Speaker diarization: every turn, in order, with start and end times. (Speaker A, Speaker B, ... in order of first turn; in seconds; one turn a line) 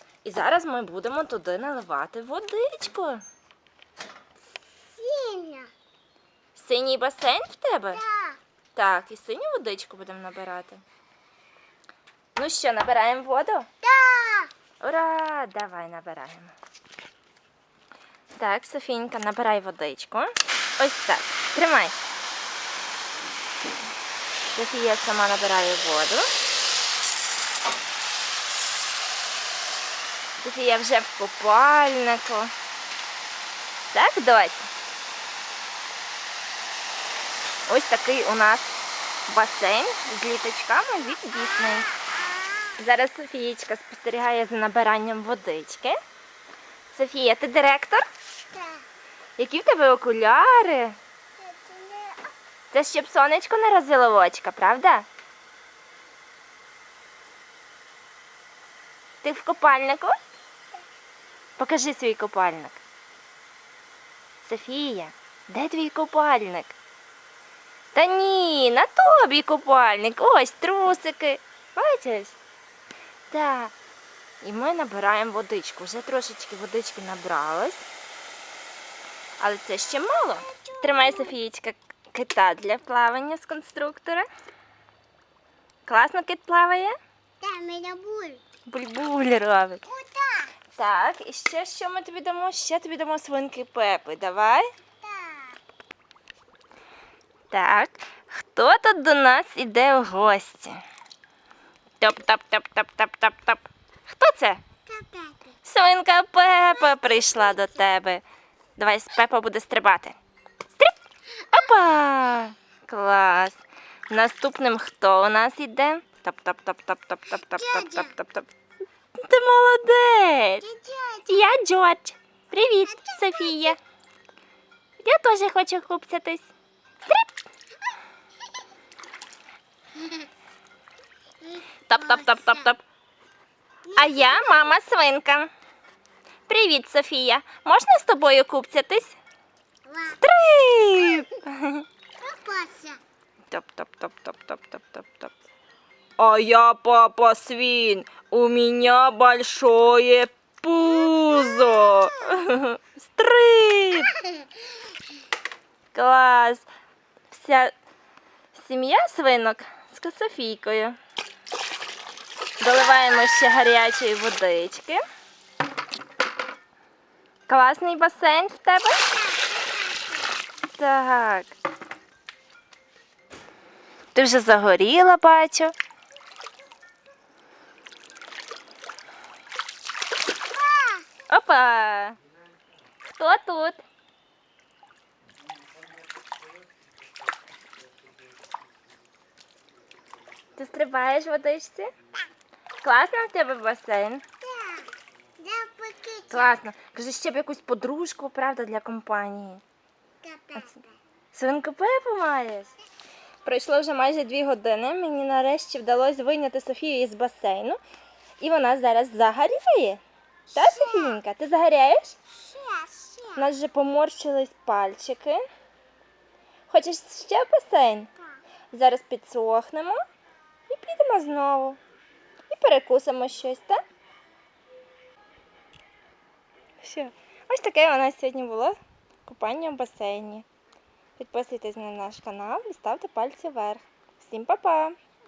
Speaker A: 0.2-3.2
Speaker B: 4.8-5.7
Speaker A: 6.5-8.0
Speaker B: 7.9-8.4
Speaker A: 8.7-10.8
Speaker A: 12.3-13.7
Speaker B: 13.8-14.5
Speaker A: 14.8-16.5
Speaker A: 18.4-22.0
Speaker A: 24.5-26.3
Speaker A: 30.4-32.5
Speaker A: 33.9-34.7
Speaker A: 37.7-41.9
Speaker B: 41.4-42.8
Speaker A: 42.8-46.0
Speaker A: 46.9-48.0
Speaker B: 48.5-48.8
Speaker A: 49.4-51.0
Speaker B: 51.4-52.3
Speaker A: 52.7-55.1
Speaker A: 59.2-60.1
Speaker A: 61.6-62.8
Speaker A: 64.4-66.8
Speaker A: 67.9-72.4
Speaker A: 73.3-73.7
Speaker A: 74.4-77.8
Speaker A: 79.4-84.2
Speaker B: 80.4-81.3
Speaker A: 85.8-86.9
Speaker B: 87.4-88.4
Speaker A: 88.7-89.8
Speaker B: 89.9-90.5
Speaker A: 90.7-94.7
Speaker B: 95.0-95.6
Speaker A: 97.5-100.8
Speaker A: 102.0-104.6
Speaker B: 104.9-105.5
Speaker A: 105.6-108.2
Speaker B: 106.7-107.8
Speaker A: 108.8-110.2
Speaker A: 111.5-118.5
Speaker B: 117.4-118.1
Speaker A: 119.1-120.6
Speaker B: 120.6-121.5
Speaker A: 121.3-123.8
Speaker B: 122.8-123.8
Speaker A: 125.0-126.5
Speaker B: 129.9-130.3
Speaker B: 131.4-132.7
Speaker A: 131.9-132.8
Speaker B: 133.8-134.7
Speaker A: 133.9-135.5
Speaker A: 136.5-139.2
Speaker B: 139.8-140.2
Speaker A: 140.2-141.8
Speaker B: 140.9-141.3
Speaker B: 142.2-143.0
Speaker A: 143.5-145.3
Speaker A: 146.2-154.2
Speaker B: 151.1-152.1
Speaker A: 155.9-156.7
Speaker A: 157.3-157.7
Speaker A: 158.5-161.0
Speaker A: 162.6-165.0
Speaker A: 167.5-169.0
Speaker B: 169.1-170.3
Speaker A: 170.7-171.6
Speaker A: 174.1-175.7
Speaker B: 180.5-181.1
Speaker A: 181.3-182.2
Speaker A: 183.0-183.8
Speaker A: 190.6-191.9
Speaker A: 192.8-194.2
Speaker B: 194.4-196.6
Speaker A: 196.3-199.6
Speaker B: 200.2-200.9
Speaker A: 201.3-202.7
Speaker A: 203.4-207.8
Speaker A: 208.4-210.0
Speaker A: 210.5-212.2
Speaker B: 210.5-211.2
Speaker B: 212.3-213.4
Speaker A: 213.3-215.4
Speaker A: 216.7-218.1
Speaker A: 218.7-220.0
Speaker A: 220.7-221.8
Speaker A: 222.5-223.8
Speaker A: 226.8-230.4
Speaker A: 231.2-234.9